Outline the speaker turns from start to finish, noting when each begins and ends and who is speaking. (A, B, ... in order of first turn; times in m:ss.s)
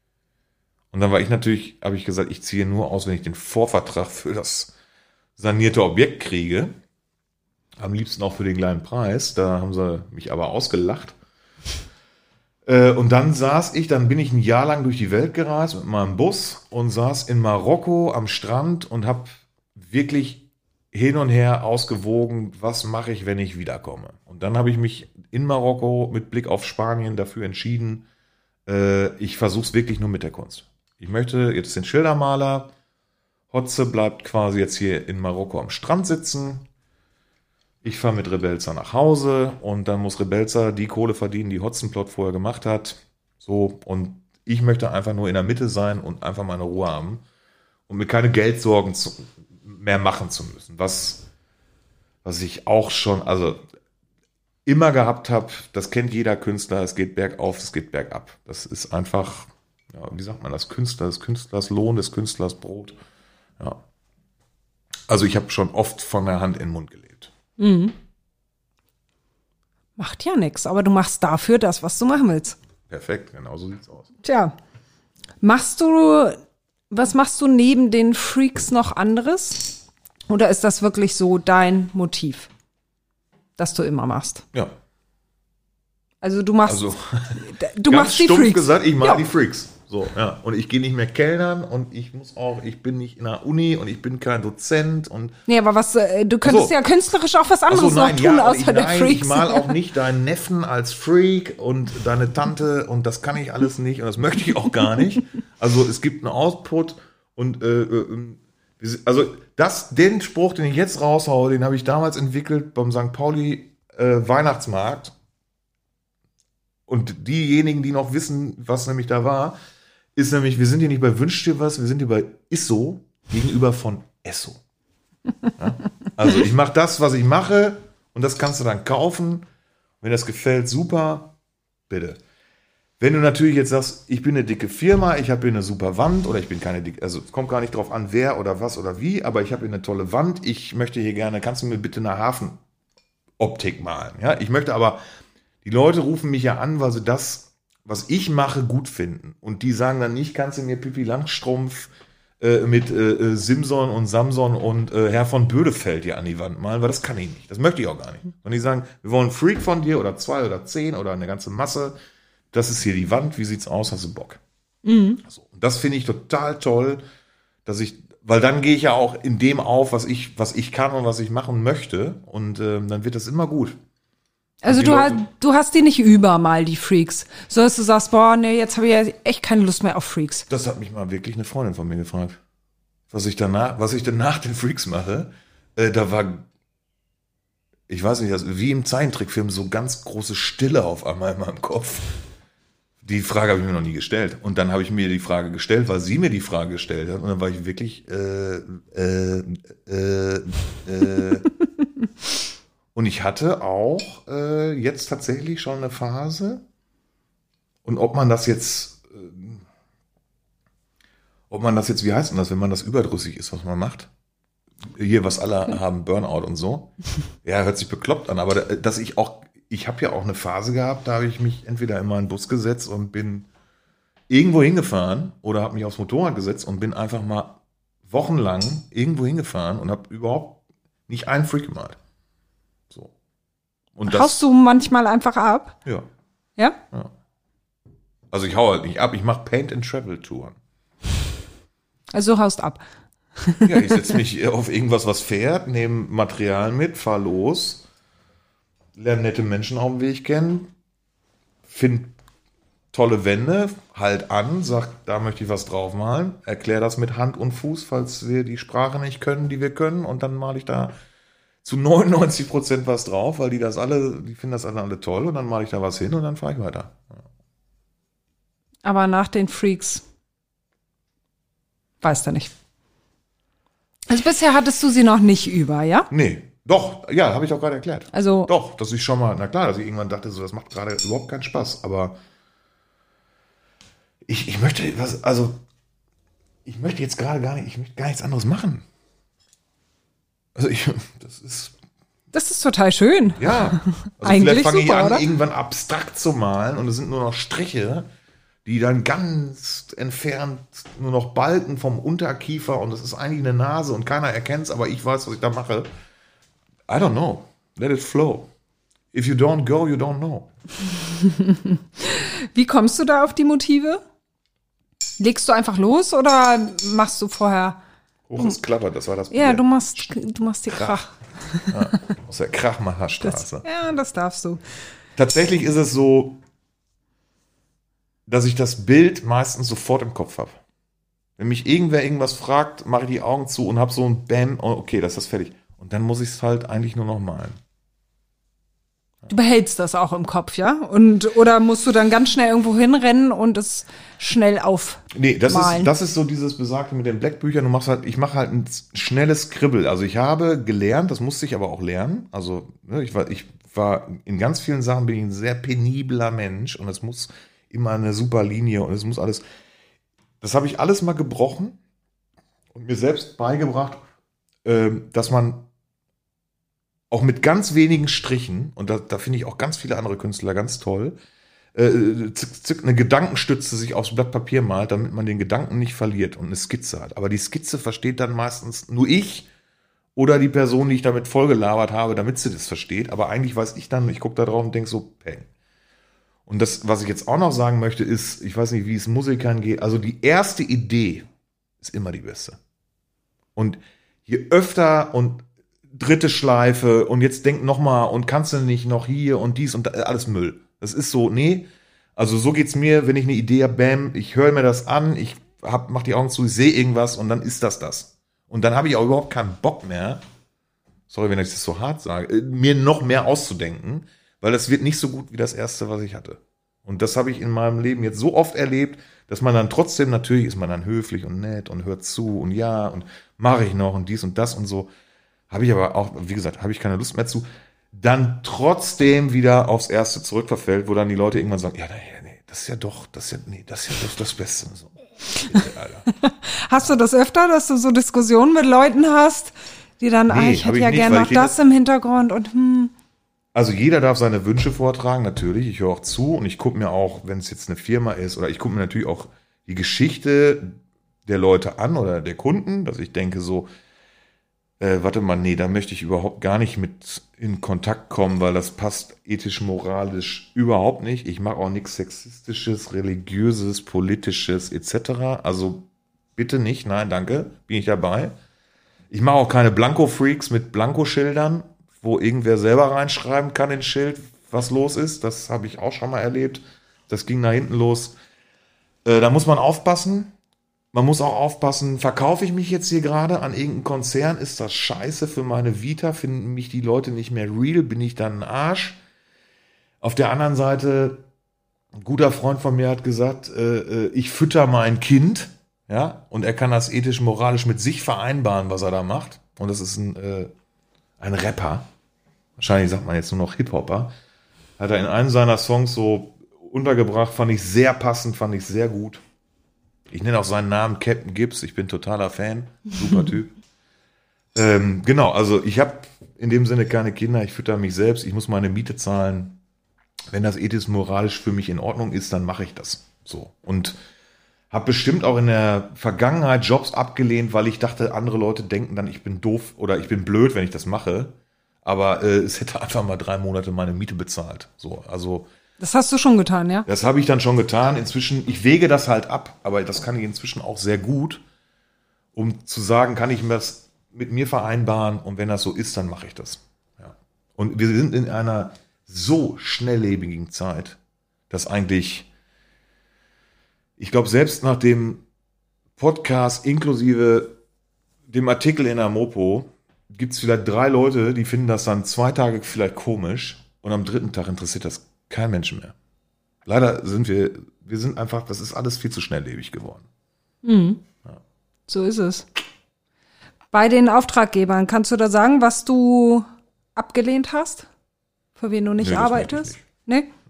0:00.9-0:04.7 A
0:05.4-0:06.7 A
0:07.8-0:11.2 A
0:12.6-0:28.0 A
0:28.6-0:32.7 A
0:33.5-0:36.6 A
0:37.8-0:47.2 A
0:47.9-0:51.3 A
0:52.2-0:53.6 A
0:54.6-1:03.0 A
1:05.1-1:07.3 A
1:07.6-1:08.0 B
1:10.0-1:12.6 B
1:12.9-1:14.1 A
1:14.2-1:14.5 B
1:15.4-1:16.4 B
1:16.9-1:22.5 B
1:23.6-1:24.4 B
1:26.2-1:29.2 B
1:26.6-1:35.4 A
1:35.5-1:39.8 B
1:36.4-1:36.7 A
1:37.7-1:55.1 A
1:56.9-1:59.6 A
2:00.2-2:04.6 A
2:05.6-2:09.4 A
2:10.0-2:11.3 A
2:11.9-2:12.2 A
2:13.0-2:22.6 A
2:23.4-2:25.0 A
2:25.6-2:42.0 A
2:42.5-2:44.4 A
2:44.8-2:45.2 B
2:45.2-2:47.0 A
2:47.6-2:53.8 A
2:54.6-3:00.5 B
2:54.7-2:55.2 A
3:00.5-3:02.4 A
3:03.1-3:06.4 A
3:07.9-3:12.2 A
3:13.0-3:21.5 A
3:22.9-3:26.6 A
3:27.8-3:29.6 A
3:31.5-3:34.1 A
3:34.9-3:36.9 A
3:37.4-3:43.5 A
3:44.3-3:52.0 A
3:53.9-3:54.4 A
3:54.0-3:55.8 B
3:58.3-4:00.6 A
4:02.1-4:02.8 B
4:03.4-4:04.2 B
4:03.6-4:07.8 A
4:09.0-4:10.7 A
4:11.7-4:12.2 A
4:12.9-4:20.9 A
4:21.6-4:27.2 A
4:28.8-4:30.0 B
4:32.0-4:32.5 B
4:34.1-4:36.1 B
4:36.1-4:42.2 A
4:38.1-4:38.5 B
4:44.2-4:45.6 A
4:46.6-4:48.8 A
4:50.5-4:51.7 A
4:52.3-4:55.2 B
4:53.4-4:58.1 A
4:58.6-5:05.9 A
5:06.9-5:08.5 A
5:09.1-5:10.5 A
5:11.1-5:14.0 B
5:15.2-5:17.8 B
5:18.3-5:20.2 A
5:19.3-5:21.8 B
5:20.7-5:21.0 A
5:21.7-5:23.6 A
5:23.2-5:24.6 B
5:25.2-5:26.4 A
5:28.3-5:30.6 A
5:31.4-5:37.6 A
5:39.3-5:45.9 B
5:45.1-5:59.4 A
6:00.4-6:01.8 A
6:02.7-6:04.0 A
6:04.6-6:05.6 A
6:07.1-6:11.2 A
6:11.7-6:19.5 A
6:20.2-6:25.5 A
6:26.4-6:31.2 A
6:31.8-6:32.6 A
6:33.6-6:50.2 A
6:51.1-7:04.9 A
7:05.5-7:16.1 A
7:16.1-7:22.9 B
7:20.3-7:21.6 A
7:23.5-7:33.7 A
7:34.8-7:48.3 A
7:49.1-7:58.2 A
7:59.0-8:00.3 A
8:00.9-8:09.0 A
8:10.0-8:11.2 A
8:12.0-8:20.5 A
8:21.2-8:21.9 A
8:22.6-8:24.1 A
8:24.8-8:29.2 A
8:30.1-8:33.5 A
8:34.5-8:39.6 A
8:40.3-8:44.0 A
8:44.7-8:55.5 A
8:55.8-8:56.9 B
8:56.9-9:01.4 A
9:02.3-9:11.0 A
9:11.5-9:12.3 A
9:14.0-9:15.2 A
9:16.0-9:17.6 A
9:18.3-9:25.9 A
9:26.6-9:30.0 A
9:30.6-9:31.0 B
9:31.9-9:32.5 B
9:33.7-9:37.9 B
9:38.6-9:40.3 B
9:39.0-9:39.8 A